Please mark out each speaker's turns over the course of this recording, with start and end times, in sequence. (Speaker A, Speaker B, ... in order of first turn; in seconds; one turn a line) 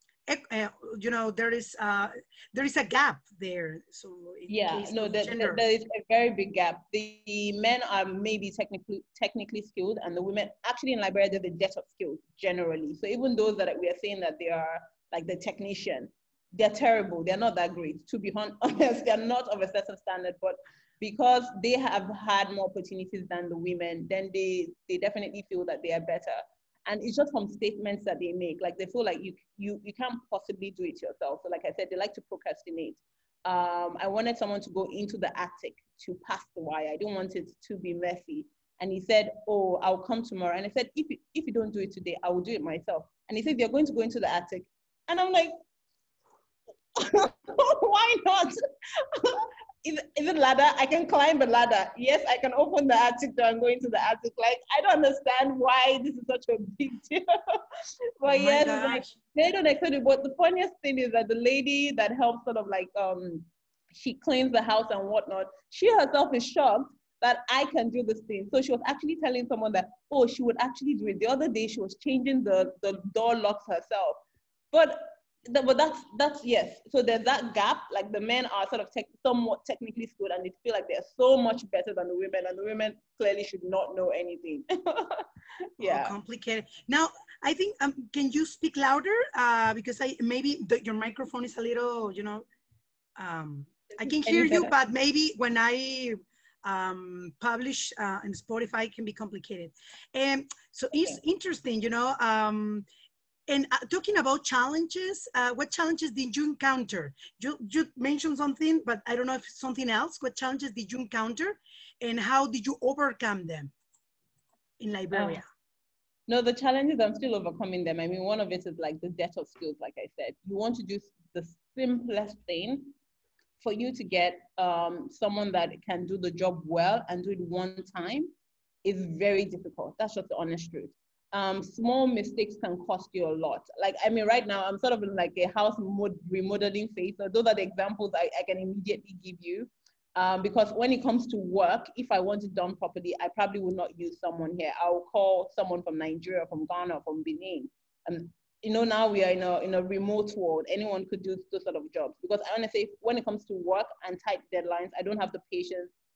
Speaker A: 0.3-5.6
Speaker B: 4.5-45.5
Speaker B: 47.0-48.6
Speaker B: 49.1-57.6
Speaker B: 58.2-74.2
Speaker A: 58.3-59.1
Speaker B: 74.7-85.2
Speaker B: 85.8-86.2
Speaker A: 85.8-92.5
Speaker A: 93.2-102.8
Speaker B: 94.0-94.7
Speaker A: 103.5-113.7
Speaker A: 114.8-115.5
Speaker B: 115.1-115.4
Speaker B: 116.3-122.9
Speaker B: 123.6-128.3
Speaker B: 128.8-155.9